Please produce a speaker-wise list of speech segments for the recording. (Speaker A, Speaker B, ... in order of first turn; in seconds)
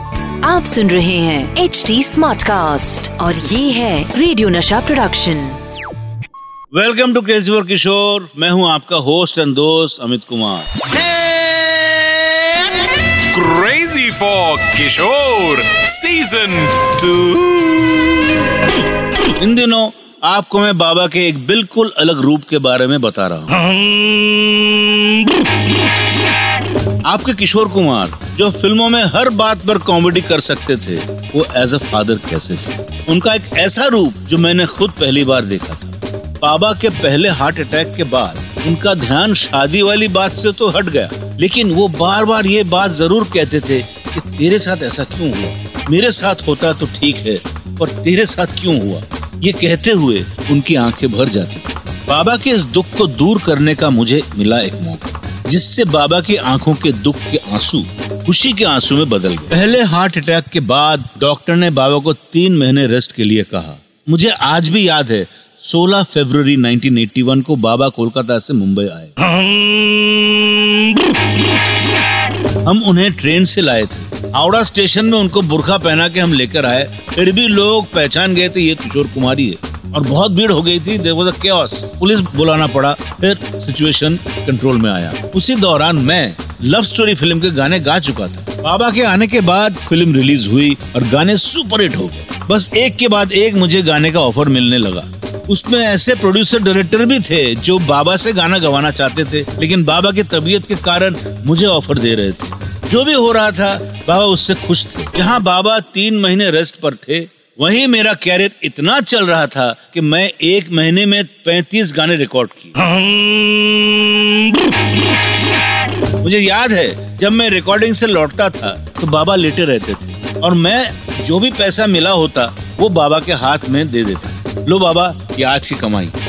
Speaker A: 0.4-5.6
Speaker B: 6.7-10.7, 19.4-23.6, 27.1-69.1, 72.7-112.8, 116.2-126.2
Speaker C: 11.0-12.7, 13.2-18.2, 23.7-24.5, 69.5-69.8